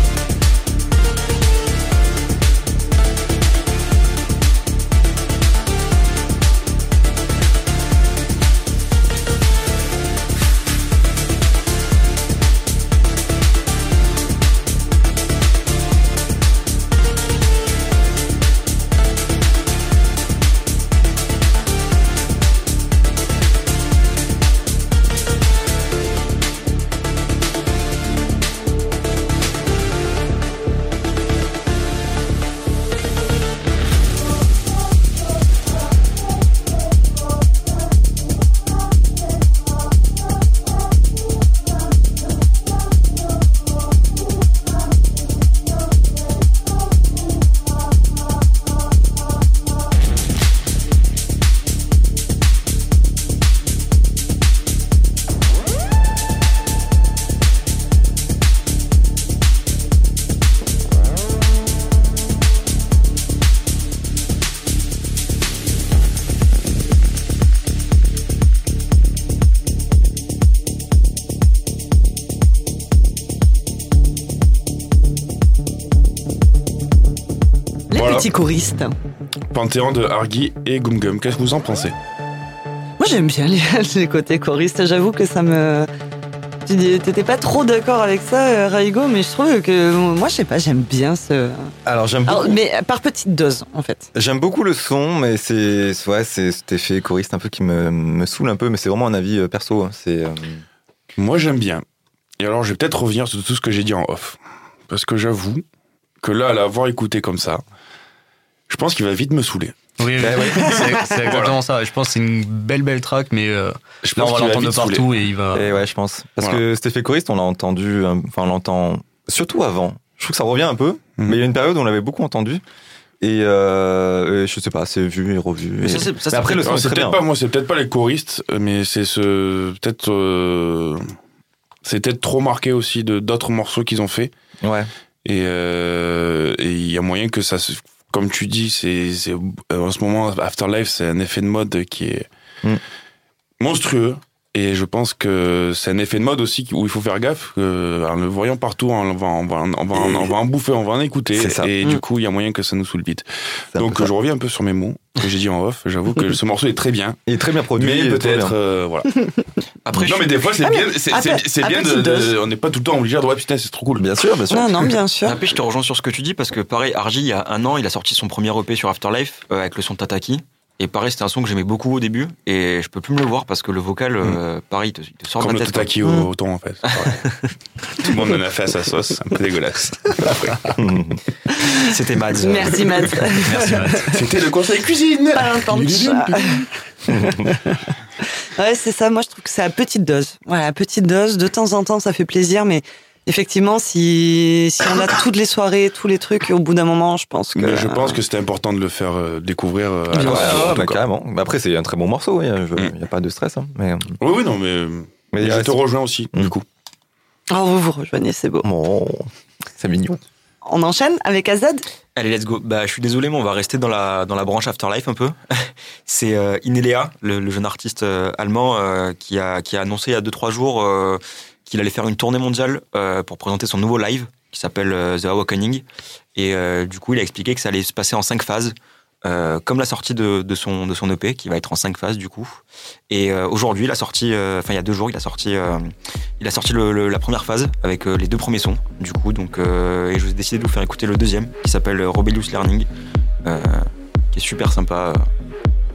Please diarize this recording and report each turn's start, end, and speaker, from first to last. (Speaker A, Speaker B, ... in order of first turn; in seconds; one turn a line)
Speaker A: 77.9-79.0
Speaker B: 77.9-78.3
Speaker B: 79.5-81.9
Speaker A: 83.0-85.9
Speaker A: 86.6-91.7
Speaker C: 91.8-92.6
Speaker A: 92.2-94.1
Speaker C: 94.1-100.6
Speaker B: 101.2-101.8
Speaker B: 102.4-105.6
Speaker B: 106.2-107.6
Speaker B: 108.7-109.8
Speaker D: 110.0-115.7
Speaker C: 110.2-110.8
Speaker B: 111.2-111.5
Speaker B: 114.0-115.1
Speaker C: 115.5-122.6
Speaker C: 123.2-127.2
Speaker E: 125.8-126.6
Speaker B: 126.4-131.0
Speaker B: 131.8-134.3
Speaker C: 134.6-134.9
Speaker B: 135.2-142.3
Speaker B: 143.6-157.2
Speaker C: 150.0-150.3
Speaker C: 151.3-151.7
Speaker C: 153.7-154.1
Speaker C: 157.3-158.5
Speaker B: 157.7-159.1
Speaker E: 159.8-160.3
Speaker B: 160.0-164.0
Speaker A: 160.6-162.3
Speaker C: 164.0-164.9
Speaker A: 164.5-165.3
Speaker E: 165.2-175.9
Speaker B: 175.4-177.2
Speaker A: 176.0-176.3
Speaker E: 176.9-177.5
Speaker B: 177.9-180.8
Speaker C: 180.8-181.2
Speaker A: 181.5-184.3
Speaker E: 181.8-183.5
Speaker D: 183.7-183.9
Speaker B: 184.0-186.6
Speaker A: 185.3-198.2
Speaker C: 187.1-187.4
Speaker B: 197.5-201.0
Speaker C: 200.1-204.2
Speaker A: 200.1-200.8
Speaker B: 204.2-206.7
Speaker C: 205.3-205.8
Speaker A: 207.5-208.7
Speaker C: 208.6-210.2
Speaker A: 210.6-211.8
Speaker E: 212.1-225.8
Speaker E: 226.3-232.6
Speaker E: 233.1-242.9
Speaker E: 243.4-245.3